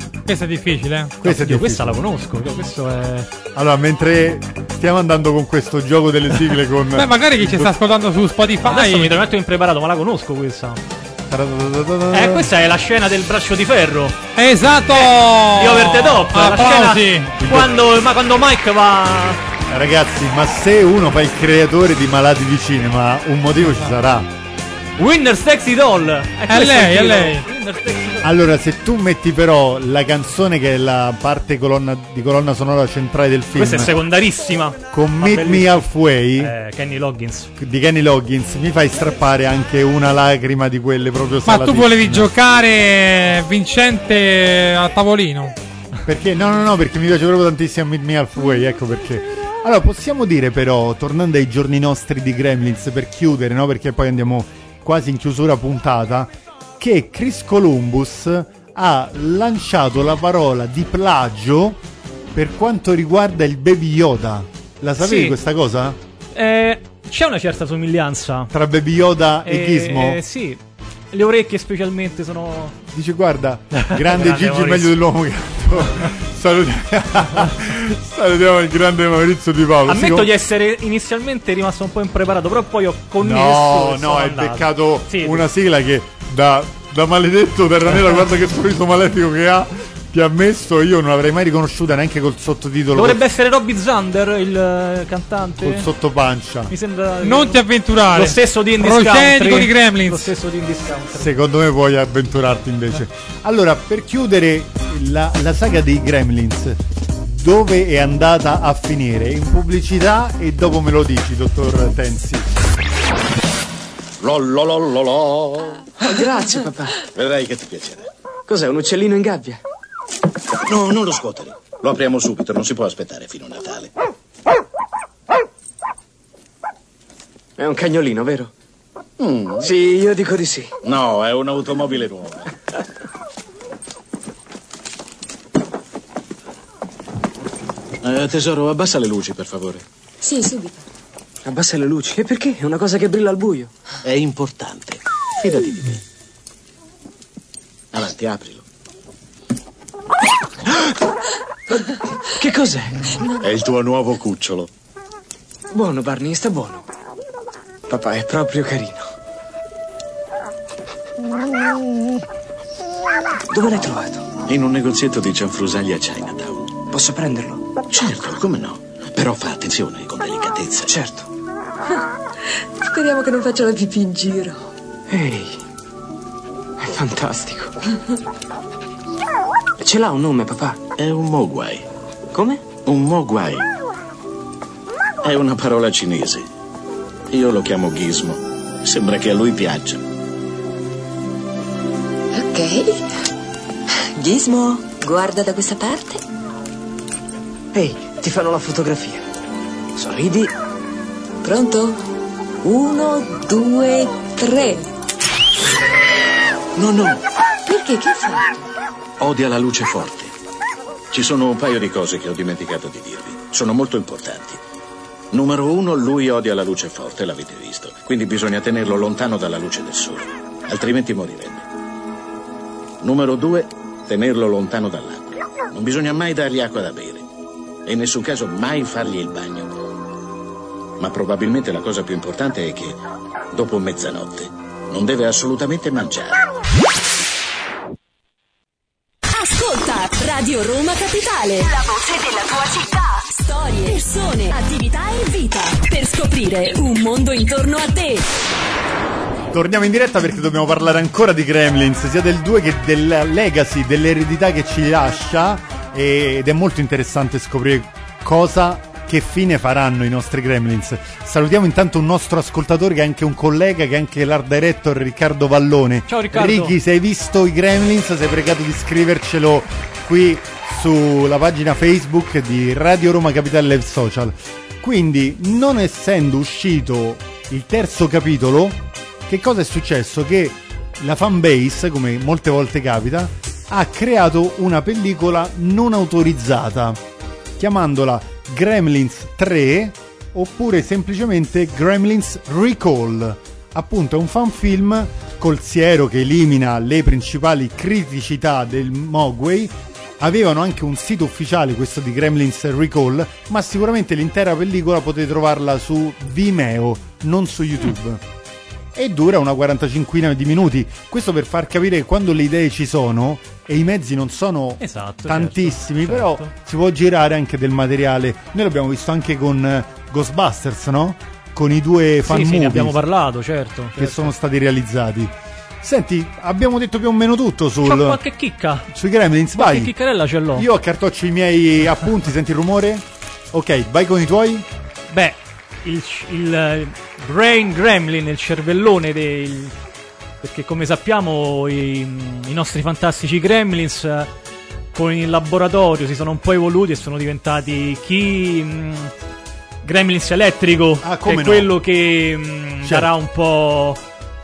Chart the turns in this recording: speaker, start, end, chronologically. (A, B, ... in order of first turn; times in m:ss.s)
0:00.2-0:01.2 A
0:01.2-0:02.0 B
0:01.2-0:03.3 C
0:03.5-0:07.7 B
0:06.9-0:09.2 A
0:08.6-0:10.8 C
0:11.3-0:12.5 B
0:12.1-0:14.2 C
0:14.4-0:17.3 A
0:14.9-0:19.4 C
0:17.4-0:17.7 B
0:19.7-0:24.3 B
0:25.0-0:28.3 C
0:26.5-0:27.4 A
0:28.2-0:33.9 B
0:33.5-0:37.5 C
0:34.9-0:36.5 B
0:37.6-0:42.3 B
0:41.4-0:45.5 A
0:46.0-1:01.8 B
1:02.3-1:06.0 B
1:05.0-1:05.4 C
1:06.3-1:08.5 C
1:08.5-1:10.2 B
1:09.4-1:10.6 C
1:11.1-1:12.8 C
1:12.9-1:20.3 B
1:13.7-1:15.0 C
1:19.8-1:25.4 C
1:23.2-1:33.2 B
1:32.9-1:35.9 C
1:35.6-1:36.7 B
1:36.7-1:41.3 C
1:37.2-1:40.3 A
1:41.1-1:52.5 B
1:54.2-1:55.9 D
1:56.0-1:57.0 E
1:57.1-1:58.1 D
1:58.5-1:59.6 E
2:00.6-2:03.9 D
2:07.6-2:08.5 E
2:09.2-2:09.7 D
2:09.6-2:10.7 E
2:10.8-2:12.5 D
2:18.0-2:19.8 D
2:20.2-2:20.8 F
2:21.4-2:23.7 E
2:24.0-2:26.0 D
2:27.9-2:28.6 D
2:32.4-2:33.0 E
2:33.4-2:34.7 D
2:35.7-2:36.8 E
2:37.9-2:39.1 E
2:43.5-2:44.3 E
2:44.4-2:46.7 D
2:46.9-2:47.6 E
2:47.9-2:50.9 D
2:50.9-2:51.3 E
2:52.9-2:54.7 F
2:55.1-2:55.6 E
2:56.8-2:57.8 E
2:59.8-3:00.8 E
3:01.0-3:01.8 D
3:02.3-3:02.6 E
3:02.8-3:03.7 D
3:05.2-3:06.5 D
3:07.3-3:10.0 D
3:12.3-3:13.0 F
3:14.2-3:16.2 F
3:17.7-3:19.2 E
3:20.0-3:20.5 E
3:21.4-3:22.0 F
3:22.6-3:24.9 F
3:26.8-3:27.2 D
3:27.6-3:28.6 F
3:29.2-3:30.3 D
3:31.1-3:34.6 D
3:35.3-3:41.6 D
3:43.0-3:47.2 D
3:47.8-3:49.7 D
3:51.0-3:53.0 D
3:53.5-3:56.4 D
3:59.3-4:08.2 G
4:09.5-4:47.0 B
4:26.1-4:26.8 C
4:47.6-5:08.2 B
5:08.9-5:23.0 B
5:14.8-5:16.5 C
5:22.2-5:24.3 C
5:24.0-5:28.2 B
5:27.8-5:28.9 C
5:28.9-5:29.9 B
5:29.6-5:30.7 C
5:30.5-5:34.7 B
5:35.1-5:39.7 C
5:40.4-5:44.3 C
5:44.9-5:49.1 C
5:49.8-5:54.0 C
5:51.0-5:51.8 B
5:52.8-5:53.1 B